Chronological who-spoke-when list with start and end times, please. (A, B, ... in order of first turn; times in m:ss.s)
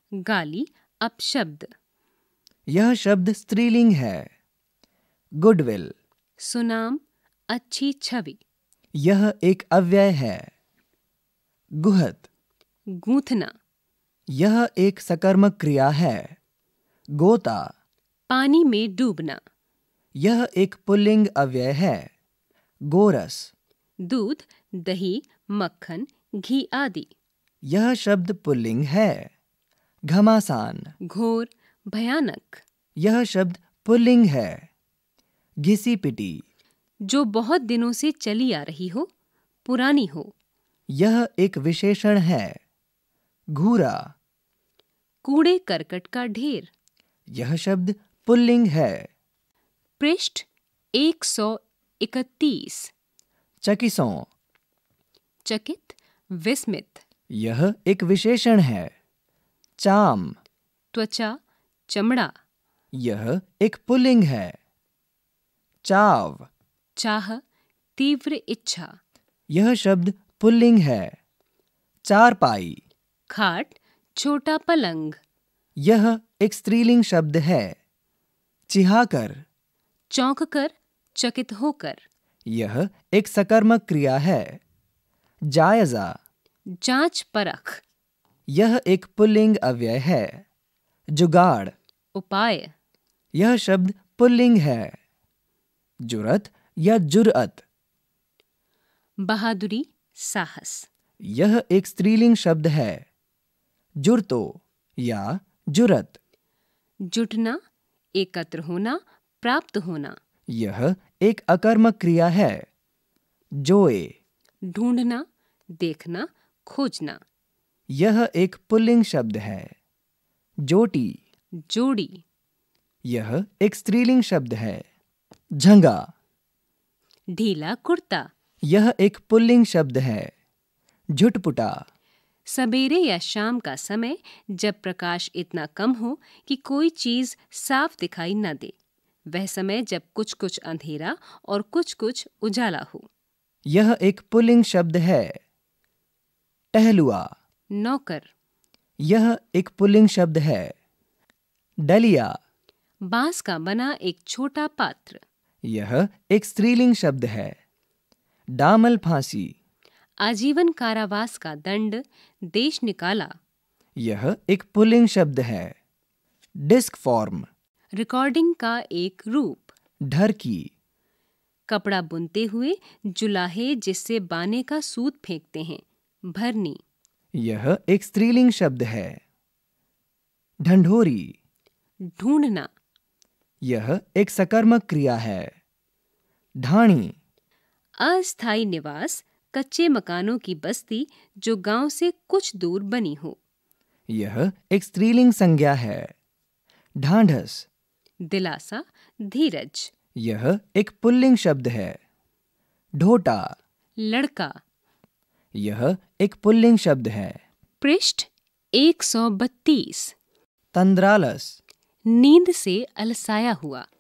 0:00.2-0:01.7 A
0:02.7-0:04.3 B
0:05.4-0:05.9 B
0:06.4-0:08.4 A
0:09.0-0:10.5 B
0:11.8-0:12.3 B
0:12.9-0:13.5 A
0:14.3-0:16.4 B
0:17.2-0:17.7 B
0:18.3-0:19.4 A
0:20.2-0:22.1 B
0:22.9-0:23.5 B
0:24.0-0:27.1 A
0:27.7-0:29.3 B
0:30.1-0:30.9 B
0:31.0-0:32.6 A
0:33.0-0:34.7 B
0:35.6-0:36.4 B
0:37.1-0:39.1 A
0:39.6-0:40.3 A
0:41.0-0:42.6 B
0:43.5-0:44.1 B
0:45.2-0:46.7 A
0:47.3-0:49.1 B
0:50.0-0:52.9 A
0:53.6-0:54.3 B
0:55.4-0:57.0 A
0:57.3-0:58.9 B
0:59.8-1:00.4 B
1:00.9-1:01.4 A
1:01.9-1:02.3 A
1:03.0-1:04.6 B
1:05.8-1:06.5 B
1:07.0-1:07.4 A
1:08.0-1:09.0 A
1:09.5-1:11.2 B
1:12.1-1:12.8 B
1:13.3-1:15.2 A
1:15.8-1:17.8 B
1:18.7-1:19.4 B
1:20.1-1:22.0 A
1:22.5-1:24.6 B
1:25.5-1:26.2 B
1:26.7-1:27.8 A
1:28.5-1:30.4 B
1:31.2-1:31.7 B
1:32.2-1:32.7 A
1:33.4-1:35.0 B
1:36.1-1:37.6 B
1:39.2-1:40.9 A
1:41.2-1:43.0 B
1:44.0-1:46.2 B
1:47.0-1:47.6 A
1:48.2-1:50.2 A
1:50.5-1:52.7 B
1:53.6-1:54.2 B
1:54.6-1:55.3 A
1:55.8-1:57.2 A
1:57.9-1:59.7 B
2:00.6-2:01.2 B
2:01.6-2:02.2 A
2:03.1-2:04.8 B
2:05.6-2:06.1 B
2:07.3-2:08.3 A
2:08.7-2:10.3 B
2:11.1-2:11.8 B
2:12.5-2:18.8 A
2:19.3-2:23.1 A
2:23.7-2:25.4 B
2:26.7-2:27.3 B
2:27.7-2:28.3 A
2:29.0-2:30.7 B
2:31.9-2:32.4 B
2:33.0-2:35.2 A
2:35.6-2:37.6 B
2:38.6-2:39.6 B
2:40.2-2:43.3 A
2:44.0-2:45.8 B
2:46.6-2:47.5 B
2:48.0-2:49.7 A
2:50.1-2:50.7 B
2:51.7-2:56.8 A
2:57.4-2:59.2 B
3:00.6-3:01.4 B
3:02.1-3:02.7 A
3:03.6-3:05.5 B
3:06.6-3:07.2 B
3:08.0-3:13.4 A
3:14.1-3:16.1 B
3:17.0-3:17.7 B
3:18.3-3:19.9 A
3:20.2-3:22.0 B
3:23.0-3:23.5 B
3:24.0-3:24.6 A
3:25.5-3:27.4 B
3:27.8-3:30.2 A
3:30.7-3:31.6 B
3:32.1-3:33.9 A